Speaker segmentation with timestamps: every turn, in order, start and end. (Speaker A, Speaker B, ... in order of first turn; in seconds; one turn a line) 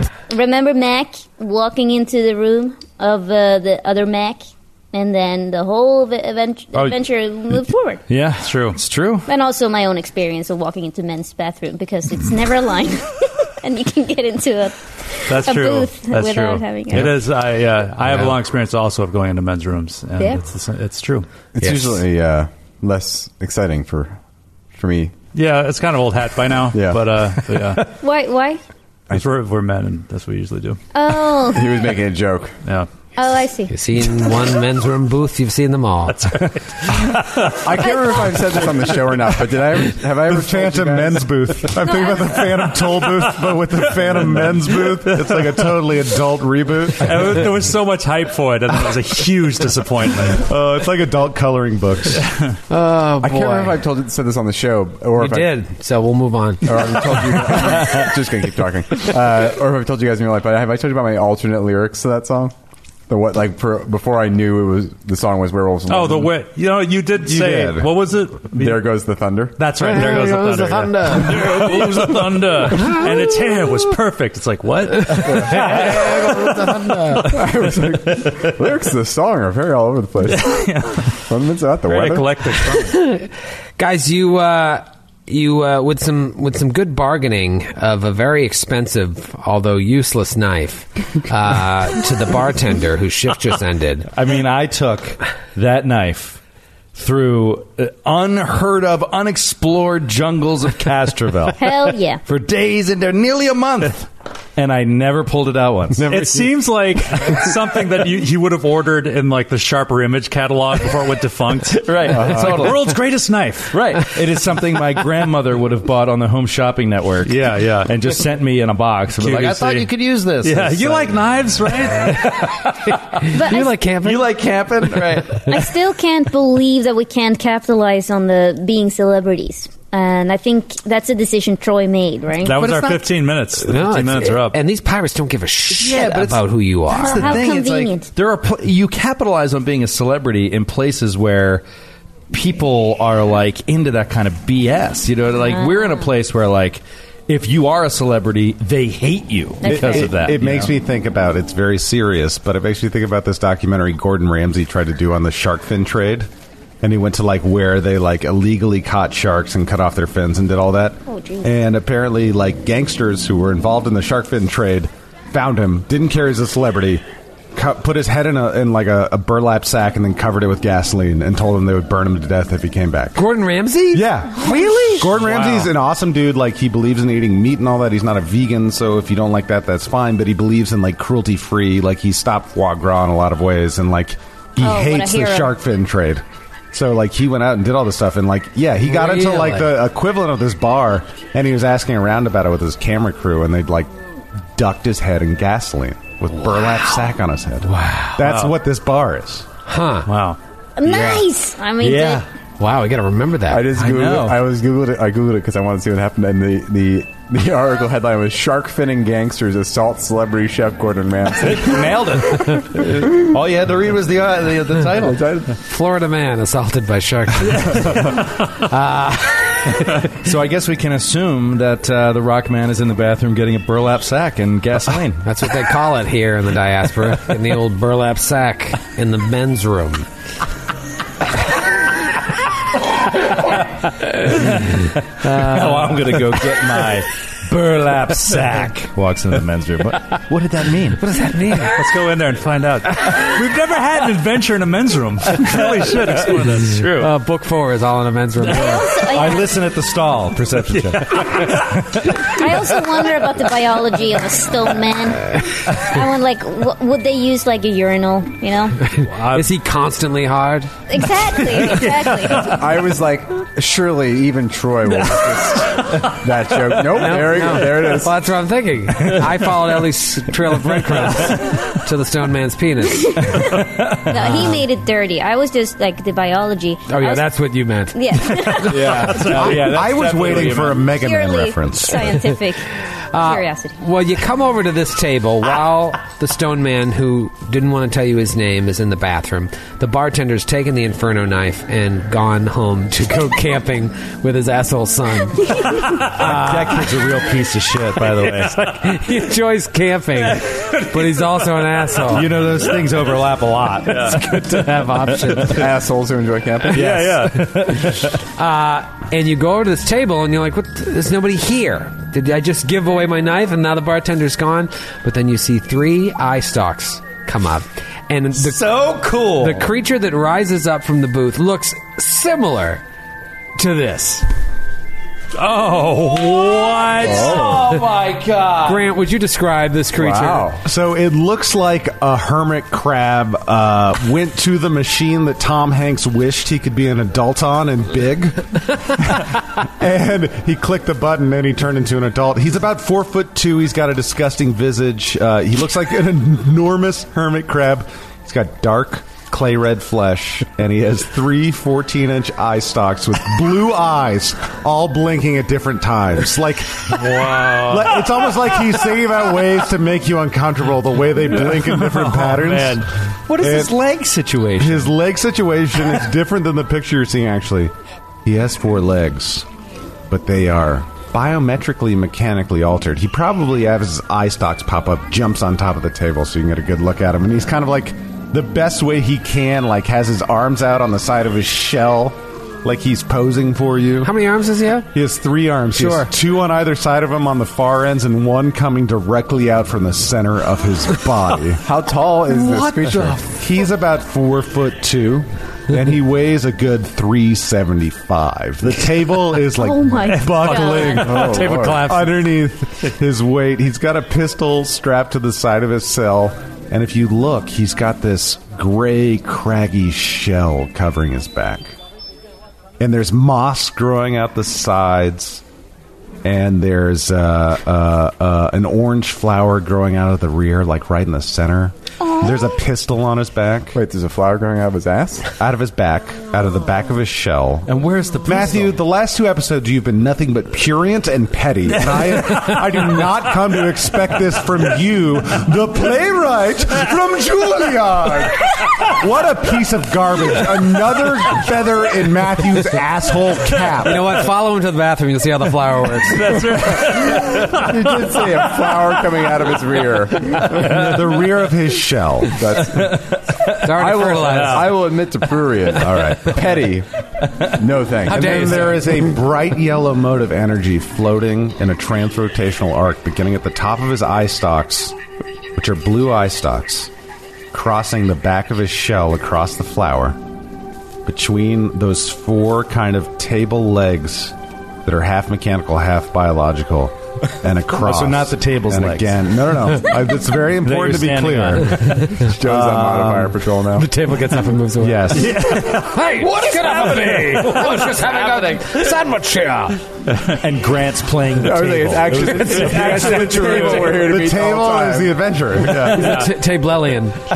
Speaker A: 0.3-8.0
Speaker B: 7.6-9.3
Speaker C: 8.4-8.8
Speaker A: 9.2-17.2
Speaker C: 15.3-21.3
Speaker A: 20.2-20.4
Speaker D: 21.6-24.2
Speaker D: 24.7-25.1
Speaker C: 25.3-27.8
Speaker D: 26.7-27.1
Speaker A: 28.0-28.6
Speaker C: 29.1-30.8
Speaker A: 30.9-32.0
Speaker D: 31.5-32.6
Speaker C: 32.6-32.9
Speaker A: 33.1-33.7
Speaker E: 33.7-36.4
Speaker C: 36.1-37.7
Speaker D: 37.6-41.2
Speaker A: 37.8-38.6
Speaker F: 40.2-47.4
Speaker A: 41.8-42.6
Speaker C: 44.2-45.7
Speaker C: 47.0-50.5
Speaker F: 50.4-52.2
Speaker E: 52.7-53.8
Speaker D: 53.2-55.6
Speaker E: 55.1-57.2
Speaker D: 56.6-62.5
Speaker D: 63.1-66.4
Speaker C: 65.9-68.9
Speaker F: 67.2-67.9
Speaker D: 68.4-69.7
Speaker C: 69.6-77.9
Speaker E: 69.8-72.2
Speaker E: 72.7-73.1
Speaker E: 75.0-77.4
Speaker D: 75.2-76.2
Speaker D: 77.2-80.5
Speaker C: 80.2-81.1
Speaker D: 81.3-82.4
Speaker C: 81.9-83.0
Speaker E: 82.7-94.1
Speaker B: 94.1-96.4
Speaker B: 96.9-106.5
Speaker A: 101.6-102.2
Speaker C: 106.0-113.9
Speaker B: 111.8-113.0
Speaker D: 112.1-112.7
Speaker B: 113.7-122.9
Speaker C: 117.2-117.9
Speaker C: 119.1-122.4
Speaker E: 123.2-124.3
Speaker A: 123.3-123.7
Speaker B: 124.0-125.7
Speaker A: 125.5-133.1
Speaker C: 132.4-134.6
Speaker E: 133.6-137.4
Speaker B: 135.7-141.6
Speaker A: 136.9-138.1
Speaker B: 142.3-150.7
Speaker A: 145.5-146.0
Speaker A: 149.6-150.1
Speaker F: 149.7-156.3
Speaker F: 156.8-167.0
Speaker A: 161.1-161.6
Speaker F: 167.6-173.2
Speaker E: 173.2-175.1
Speaker F: 173.9-193.9
Speaker C: 175.2-175.7
Speaker A: 184.6-185.6
Speaker E: 188.9-189.7
Speaker F: 194.6-199.4
Speaker E: 197.6-198.2
Speaker C: 198.2-198.6
Speaker E: 199.7-200.1
Speaker C: 200.1-200.4
Speaker A: 200.8-202.2
Speaker B: 201.8-202.2
Speaker E: 202.6-203.7
Speaker D: 203.5-211.9
Speaker B: 203.8-204.4
Speaker B: 211.4-215.2
Speaker D: 214.9-215.6
Speaker E: 215.6-220.0
Speaker B: 220.2-225.2
Speaker E: 225.2-230.1
Speaker B: 234.2-241.0
Speaker E: 235.2-236.0
Speaker E: 241.0-241.9
Speaker C: 241.7-247.1
Speaker E: 246.8-248.9
Speaker A: 248.5-249.6
Speaker B: 249.1-252.4
Speaker C: 250.7-251.6
Speaker A: 252.1-258.8
Speaker E: 258.9-260.8
Speaker C: 259.0-259.5
Speaker A: 260.9-262.6
Speaker D: 262.4-268.1
Speaker E: 266.9-273.4
Speaker A: 273.0-277.3
Speaker B: 273.4-274.2
Speaker E: 276.9-279.5
Speaker A: 277.9-279.4
Speaker B: 278.7-280.9
Speaker C: 279.4-280.7
Speaker F: 279.5-282.1
Speaker A: 280.9-283.8
Speaker E: 283.1-296.9
Speaker B: 296.0-298.6
Speaker E: 298.3-302.3
Speaker C: 300.2-301.9
Speaker B: 302.0-304.4
Speaker C: 303.9-304.3
Speaker E: 303.9-305.7
Speaker D: 305.5-306.9
Speaker E: 306.7-307.1
Speaker C: 306.7-307.9
Speaker B: 306.8-308.0
Speaker E: 307.7-318.8
Speaker C: 318.4-319.6
Speaker E: 319.3-322.8
Speaker E: 323.6-324.2
Speaker C: 325.4-328.9
Speaker D: 327.0-327.8
Speaker E: 328.6-330.5
Speaker D: 330.0-330.6
Speaker F: 330.6-338.4
Speaker F: 339.0-363.8
Speaker C: 357.0-358.1
Speaker C: 361.4-362.9
Speaker B: 363.3-364.9
Speaker F: 364.6-367.7
Speaker F: 368.2-369.5
Speaker F: 370.1-384.1
Speaker E: 384.0-384.9
Speaker F: 384.9-391.6
Speaker E: 385.7-386.1
Speaker D: 391.6-393.2
Speaker F: 393.3-411.7
Speaker A: 399.5-401.3
Speaker C: 400.1-402.3
Speaker D: 401.0-401.9
Speaker F: 412.8-415.4
Speaker F: 416.2-423.8
Speaker A: 422.0-422.4
Speaker D: 423.7-425.3
Speaker F: 425.4-427.7
Speaker B: 427.7-428.7
Speaker F: 428.2-444.2
Speaker E: 443.8-446.4
Speaker C: 446.1-448.1
Speaker D: 446.8-450.7
Speaker F: 450.5-452.4
Speaker D: 452.3-453.0
Speaker B: 452.8-454.2
Speaker E: 453.6-454.8
Speaker D: 453.7-456.9
Speaker F: 455.7-456.5
Speaker D: 457.6-458.6
Speaker E: 458.0-459.1
Speaker F: 458.1-464.9
Speaker F: 465.6-466.9
Speaker F: 467.5-470.2
Speaker F: 471.1-474.3
Speaker F: 474.9-483.4
Speaker B: 477.8-479.2
Speaker B: 480.6-482.0
Speaker D: 482.1-483.9
Speaker E: 483.8-489.8
Speaker F: 484.8-485.4
Speaker C: 485.2-488.8
Speaker B: 490.3-494.0
Speaker D: 491.4-495.1
Speaker E: 492.4-494.0
Speaker C: 492.4-494.0
Speaker F: 494.0-496.1
Speaker E: 495.8-497.2
Speaker C: 496.0-496.3